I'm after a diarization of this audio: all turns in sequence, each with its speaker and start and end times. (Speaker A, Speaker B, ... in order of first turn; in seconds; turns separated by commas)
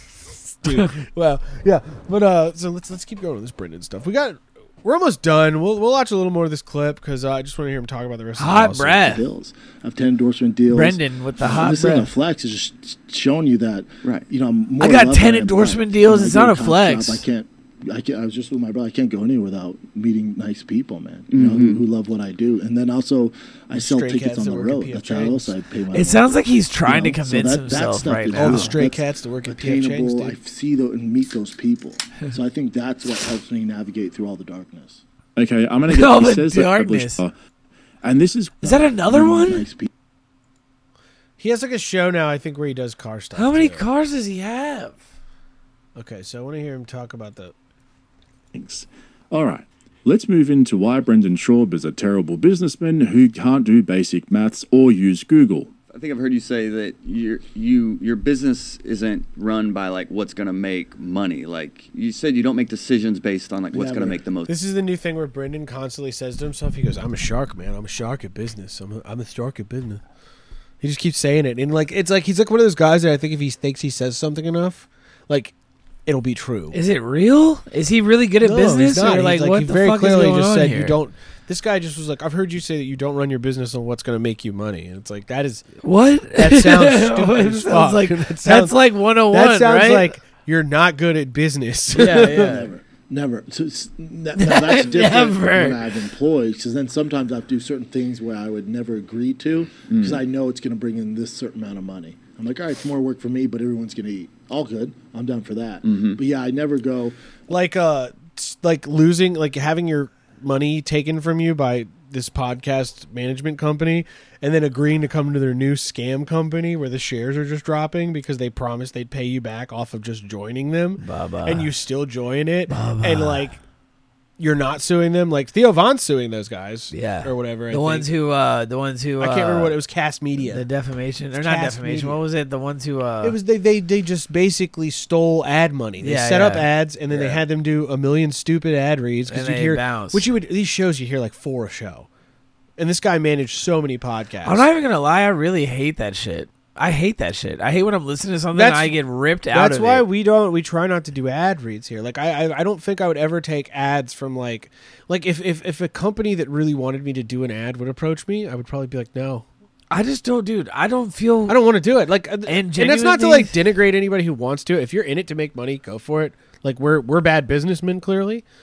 Speaker A: 0.3-9.2, Speaker B: 0.7-1.0, Speaker B: 8.4-9.2, Speaker C: 9.1-11.0, Speaker B: 10.7-12.1, Speaker C: 11.5-26.2, Speaker D: 14.0-14.3, Speaker B: 14.8-17.2, Speaker D: 21.3-21.9, Speaker A: 23.7-25.6, Speaker B: 25.9-28.8, Speaker C: 26.9-29.0, Speaker A: 28.3-30.4, Speaker C: 29.5-35.0, Speaker E: 35.4-37.3, Speaker B: 35.9-37.2, Speaker E: 38.0-38.8, Speaker B: 38.6-39.7, Speaker C: 39.1-39.9, Speaker A: 41.4-43.9, Speaker B: 43.3-45.0, Speaker A: 45.9-47.5, Speaker E: 48.5-55.7, Speaker D: 55.9-64.5, Speaker A: 64.5-70.0, Speaker A: 70.8-75.5, Speaker A: 76.0-76.8, Speaker B: 76.7-81.0, Speaker A: 78.4-85.7, Speaker B: 85.8-90.1, Speaker A: 86.3-92.7, Speaker B: 91.9-92.7, Speaker C: 92.8-107.1, Speaker B: 94.3-95.9, Speaker D: 105.8-106.2, Speaker A: 107.5-123.6, Speaker B: 121.0-121.7, Speaker B: 122.7-123.5, Speaker A: 124.4-128.1, Speaker B: 126.9-129.7, Speaker A: 129.2-130.6, Speaker B: 130.4-133.4, Speaker A: 131.3-132.2, Speaker A: 133.2-142.1, Speaker B: 136.0-137.4, Speaker B: 139.3-140.3, Speaker A: 142.8-144.7, Speaker B: 144.4-150.1, Speaker A: 148.5-149.0, Speaker A: 149.5-159.5, Speaker B: 159.9-161.6, Speaker A: 161.5-168.4, Speaker B: 162.4-163.5